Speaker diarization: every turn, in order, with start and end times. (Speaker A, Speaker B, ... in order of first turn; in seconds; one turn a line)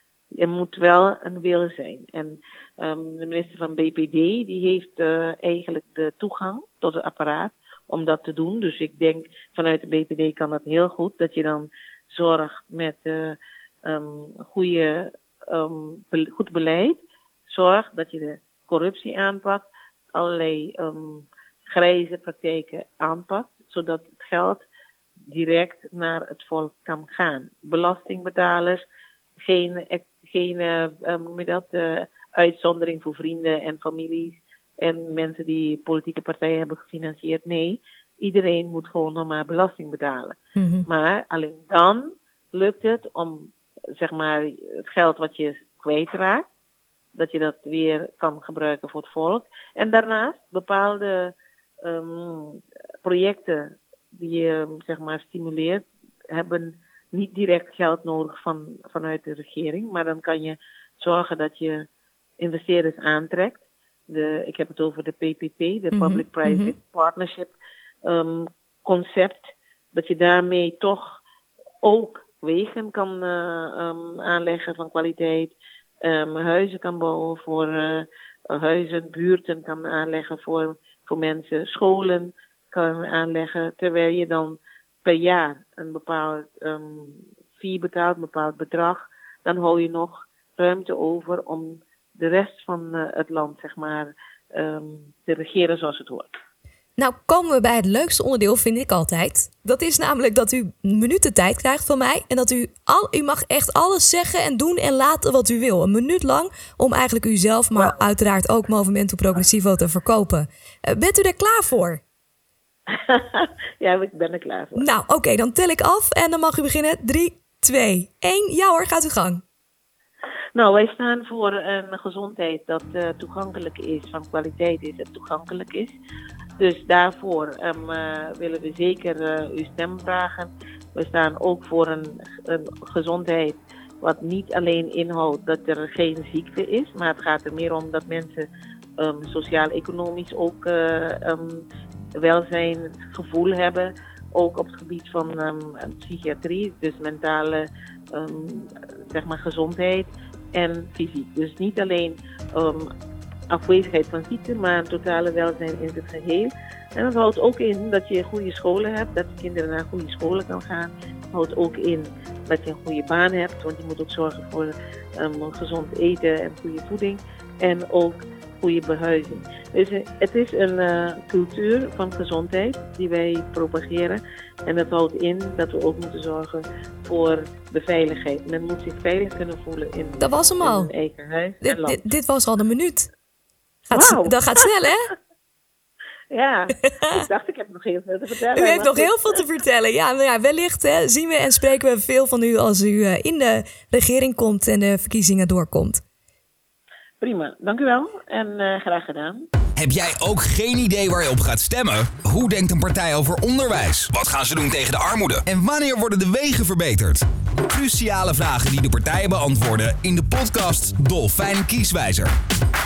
Speaker A: 0.3-24.6
Speaker A: 25.3-28.8
Speaker A: 29.4-46.5
Speaker B: 40.6-40.9
Speaker A: 47.1-61.9
Speaker A: 62.4-67.5
Speaker B: 65.9-66.7
Speaker A: 68.0-71.2
Speaker A: 71.8-96.3
Speaker B: 97.0-112.0
Speaker A: 107.8-108.0
Speaker A: 112.9-114.9
Speaker B: 114.8-119.4
Speaker A: 120.5-126.0
Speaker A: 126.6-138.5
Speaker A: 139.0-141.7
Speaker A: 142.2-152.9
Speaker A: 153.5-182.0
Speaker B: 180.2-180.9
Speaker B: 181.6-183.1
Speaker B: 183.9-185.1
Speaker A: 183.9-184.7
Speaker A: 186.3-189.2
Speaker B: 186.8-187.2
Speaker B: 188.5-196.0
Speaker A: 197.2-199.5
Speaker C: 199.8-212.3